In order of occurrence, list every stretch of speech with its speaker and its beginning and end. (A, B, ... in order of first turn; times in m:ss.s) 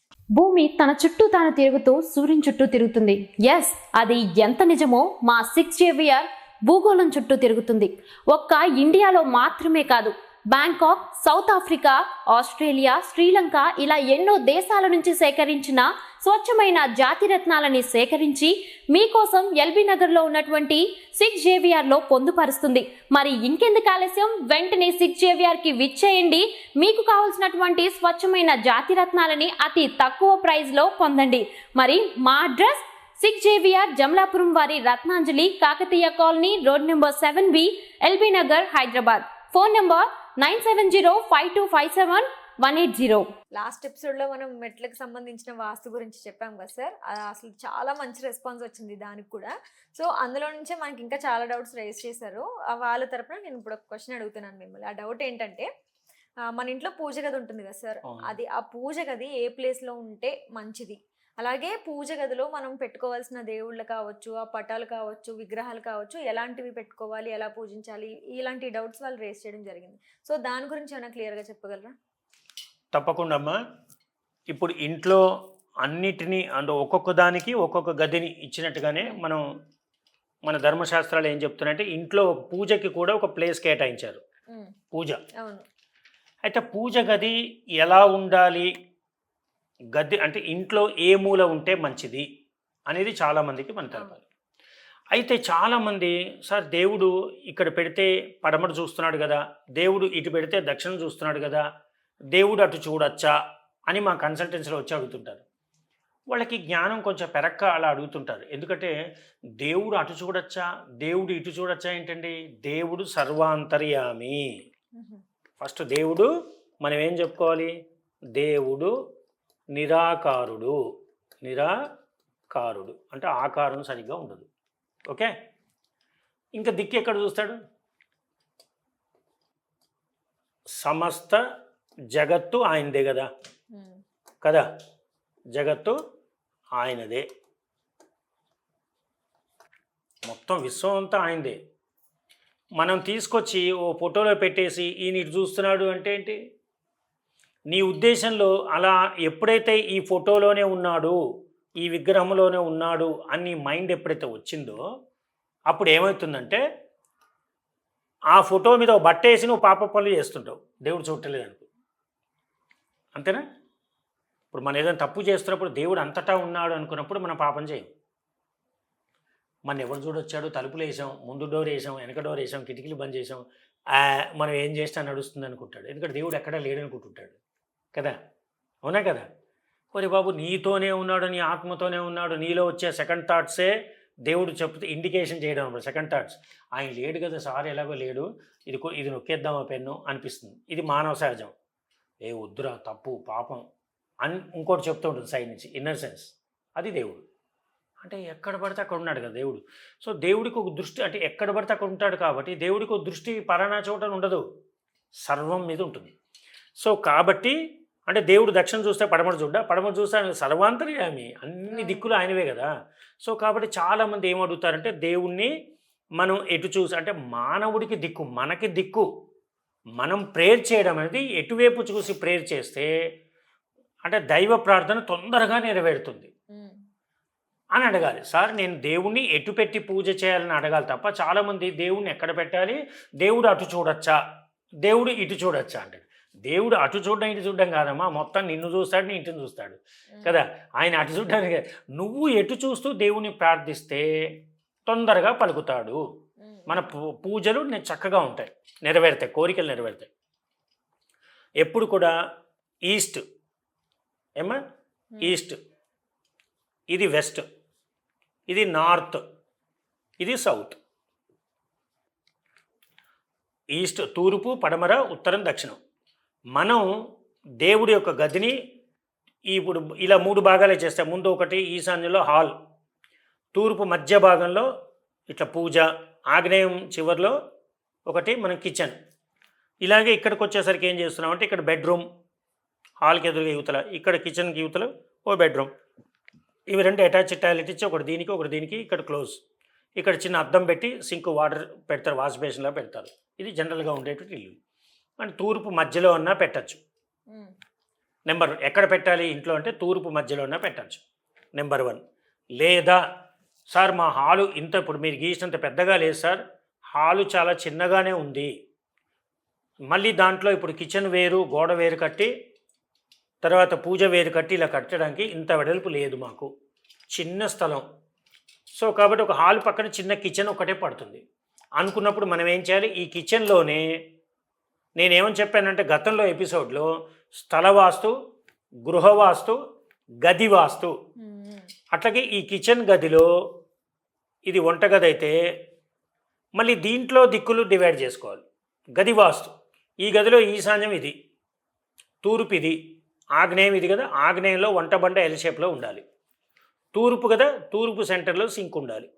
0:00.3-0:43.3 A
0:43.5-0:55.7 B
0:56.5-1:11.9 B
1:12.9-1:13.6 C
1:14.5-1:15.2 C
1:15.8-1:19.4 C
1:20.5-1:24.2 C
1:24.9-1:25.2 C
1:25.4-1:25.6 B
1:26.4-1:28.7 C
1:29.9-1:32.2 C
1:32.9-1:34.2 C
1:35.1-1:41.6 C
1:42.3-1:43.3 C
1:43.9-1:45.4 C
1:46.3-1:48.9 C
1:49.6-1:54.5 C
1:55.0-1:55.2 B
1:55.6-1:56.3 C
1:56.8-1:57.7 C
1:58.3-1:58.9 C
1:59.7-2:00.8 C
2:01.4-2:01.7 C
2:02.5-2:04.5 C
2:06.6-2:07.6 C
2:10.8-2:11.4 C
2:12.1-2:13.3 C
2:13.7-2:14.0 B
2:15.5-2:16.0 C
2:16.8-2:17.2 C
2:20.3-2:21.6 C
2:22.8-2:26.4 C
2:27.7-2:31.2 C
2:31.8-2:34.8 C
2:35.7-2:36.6 C
2:38.3-2:41.7 C
2:43.1-2:43.4 C
2:44.5-2:47.9 C
2:49.7-2:57.4 C
2:58.8-2:59.3 C
2:59.9-3:03.7 C
3:04.2-3:11.5 C
3:12.2-3:13.6 C
3:14.2-3:17.2 C
3:18.0-3:24.4 C
3:25.2-3:26.1 C
3:26.8-3:27.6 C
3:28.1-3:32.7 C
3:31.7-3:32.0 B
3:33.2-3:35.5 C
3:36.2-3:39.1 C
3:40.0-3:42.9 C
3:44.0-3:46.3 C
3:46.5-3:46.8 B
3:47.8-3:54.2 C
3:54.8-4:04.0 C
4:04.9-4:06.0 C
4:06.4-4:06.9 B
4:06.7-4:10.1 C
4:11.6-4:12.1 C
4:12.9-4:13.2 C
4:15.2-4:15.6 C
4:16.9-4:17.4 C
4:18.5-4:19.2 C
4:20.2-4:20.8 C
4:23.8-4:25.8 C
4:26.6-4:26.8 C
4:27.6-4:28.6 C
4:29.5-4:32.5 C
4:33.5-4:34.7 C
4:35.3-4:37.4 C
4:38.1-4:39.0 C
4:39.8-4:42.0 C
4:43.0-4:45.7 C
4:46.7-4:49.4 C
4:50.0-4:54.6 C
4:55.2-4:56.8 C
4:58.3-5:01.0 C
5:01.6-5:02.0 C
5:02.6-5:03.0 C
5:03.7-5:08.5 C
5:09.9-5:12.3 C
5:13.4-5:16.5 C
5:17.1-5:17.8 C
5:18.8-5:21.2 C
5:21.8-5:23.9 C
5:25.0-5:28.1 C
5:28.9-5:29.6 C
5:30.2-5:30.9 C
5:31.2-5:31.7 B
5:31.9-5:33.3 C
5:34.4-5:35.4 C
5:36.6-5:38.4 C
5:39.0-5:41.1 C
5:42.2-5:42.8 C
5:43.4-5:46.0 C
5:46.9-5:49.1 C